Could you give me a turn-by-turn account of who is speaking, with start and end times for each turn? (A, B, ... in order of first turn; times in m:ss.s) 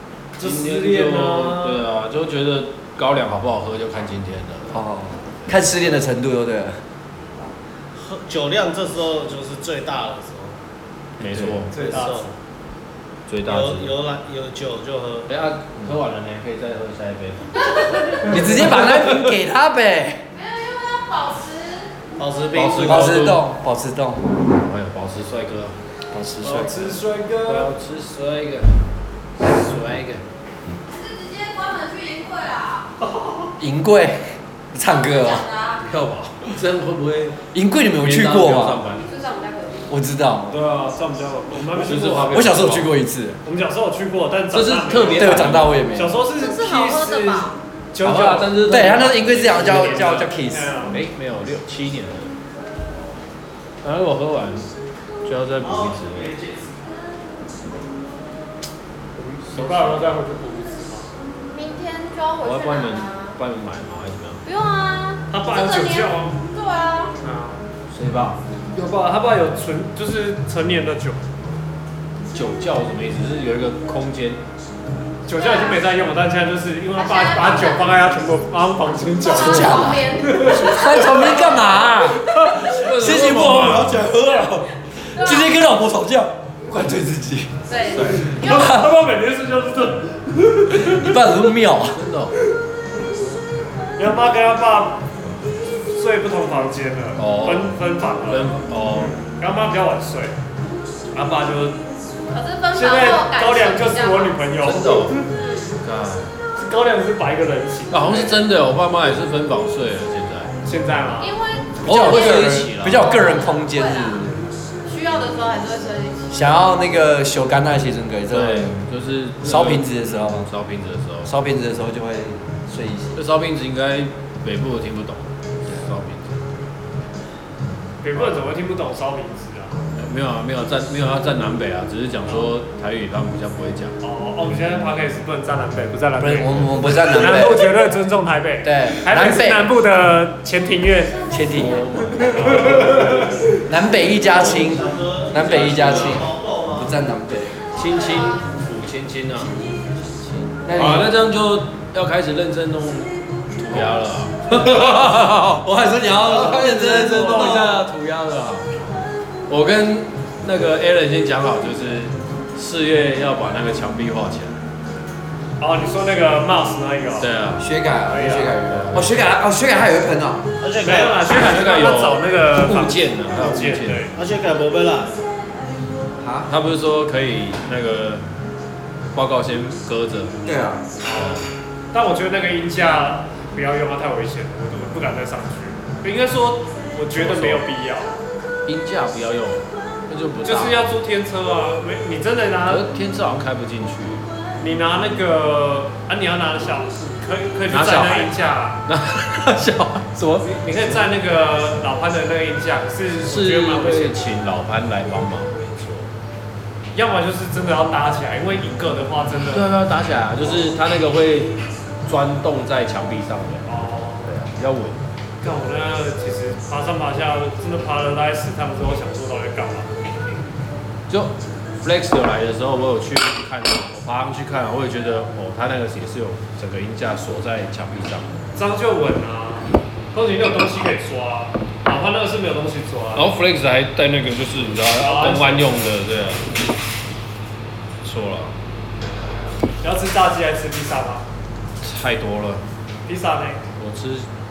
0:00.4-0:01.8 A
0:00.4-0:04.7 B
0:04.7-0:06.8 C
0:07.9-0:10.6 D
0:11.2-0:11.8 B
0:11.7-0:12.3 D
0:11.7-0:12.3 A
0:13.3-0:13.9 B
0:13.4-0:15.3 D
0:15.3-0:19.3 B
0:18.3-0:20.2 C
0:20.3-0:22.0 E
0:22.1-0:23.3 D
0:22.5-0:23.4 B
0:22.8-0:24.3 C
0:24.5-0:25.8 B
0:26.1-0:26.9 C
0:26.4-0:27.7 A
0:27.4-0:28.8 B
0:29.4-0:30.2 B
0:30.9-0:32.9 E
0:33.6-0:35.5 C
0:34.8-0:35.8 E
0:35.8-0:37.4 B
0:37.5-0:38.8 C
0:38.0-0:39.1 B
0:39.0-0:39.9 E
0:39.9-0:40.6 C
0:40.5-0:42.7 A
0:40.6-0:40.9 B
0:41.7-0:42.9 B
0:42.3-0:43.4 C
0:43.4-0:51.0 A
0:44.5-0:45.8 B
0:45.1-0:46.2 C
0:46.4-0:47.6 E
0:48.0-0:50.3 B
0:48.7-0:50.7 C
0:50.9-0:52.4 B
0:53.8-0:54.7 B
0:55.2-0:56.4 B
0:55.6-0:56.8 D
0:59.2-1:00.2 B
0:59.4-1:01.1 A
1:01.4-1:03.4 E
1:02.4-1:04.4 B
1:04.4-1:07.1 E
1:05.3-1:06.4 A
1:07.2-1:07.6 A
1:07.9-1:08.4 B
1:08.7-1:11.2 A
1:12.3-1:14.4 B
1:15.2-1:23.8 A
1:15.3-1:15.8 E
1:16.9-1:17.9 E
1:19.2-1:21.0 E
1:19.3-1:27.5 C
1:22.6-1:24.0 B
1:25.1-1:25.6 E
1:27.6-1:28.4 E
1:27.9-1:28.3 B
1:28.2-1:31.1 A
1:28.4-1:28.9 C
1:30.7-1:32.0 C
1:31.9-1:32.3 B
1:33.9-1:35.0 A
1:35.9-1:40.3 A
1:37.2-1:37.7 B
1:38.3-1:39.2 B
1:41.1-1:41.8 A
1:42.3-1:44.4 E
1:42.7-1:45.1 A
1:44.6-1:45.2 B
1:45.2-1:45.8 E
1:45.8-1:46.3 B
1:46.6-1:48.4 A
1:47.9-1:50.5 B
1:50.6-1:51.3 A
1:51.2-1:52.6 E
1:51.8-1:54.5 C
1:51.8-1:53.1 B
1:53.1-1:54.2 E
1:54.8-1:56.4 E
1:56.3-1:58.8 C
1:58.3-2:01.3 B
1:59.4-2:00.5 C
2:01.2-2:03.2 C
2:03.1-2:06.4 B
2:08.0-2:09.9 A
2:10.0-2:14.0 B
2:14.0-2:21.2 A
2:16.2-2:17.7 C
2:18.6-2:19.7 C
2:21.3-2:21.8 C
2:21.5-2:23.3 B
2:22.2-2:23.4 A
2:23.6-2:27.6 C
2:24.2-2:27.0 D
2:24.3-2:24.8 B
2:25.3-2:26.2 B
2:27.7-2:29.6 B
2:29.4-2:29.6 C
2:30.2-2:35.6 B
2:30.6-2:31.1 C
2:34.5-2:37.8 C
2:36.2-2:38.7 B
2:36.9-2:37.7 A
2:39.5-2:44.6 B
2:45.6-2:47.3 A
2:47.2-2:47.6 B
2:47.6-2:50.5 C
2:48.1-2:48.6 A
2:48.7-2:49.2 B
2:50.6-2:51.2 D
2:50.8-2:54.1 A
2:51.2-2:54.1 B
2:54.1-2:55.2 D
2:56.2-2:56.5 C
2:56.5-2:58.2 B
2:59.1-3:00.3 B
3:00.4-3:00.8 C
3:01.0-3:08.2 A
3:01.1-3:01.4 B
3:07.1-3:07.6 B
3:08.6-3:10.9 B
3:10.4-3:12.9 A
3:12.7-3:14.2 B
3:14.6-3:18.8 A
3:17.7-3:21.0 B
3:20.4-3:24.2 A
3:23.2-3:26.1 B
3:26.9-3:29.7 A
3:29.5-3:35.0 B
3:33.6-3:34.3 A
3:35.4-3:40.1 A
3:41.1-3:48.3 B
3:48.5-3:53.3 A
3:53.1-3:56.5 B
3:54.9-3:55.9 A
3:58.0-3:58.5 B
3:59.8-4:01.2 A
4:01.8-4:02.6 B
4:03.0-4:03.6 A
4:03.8-4:04.3 B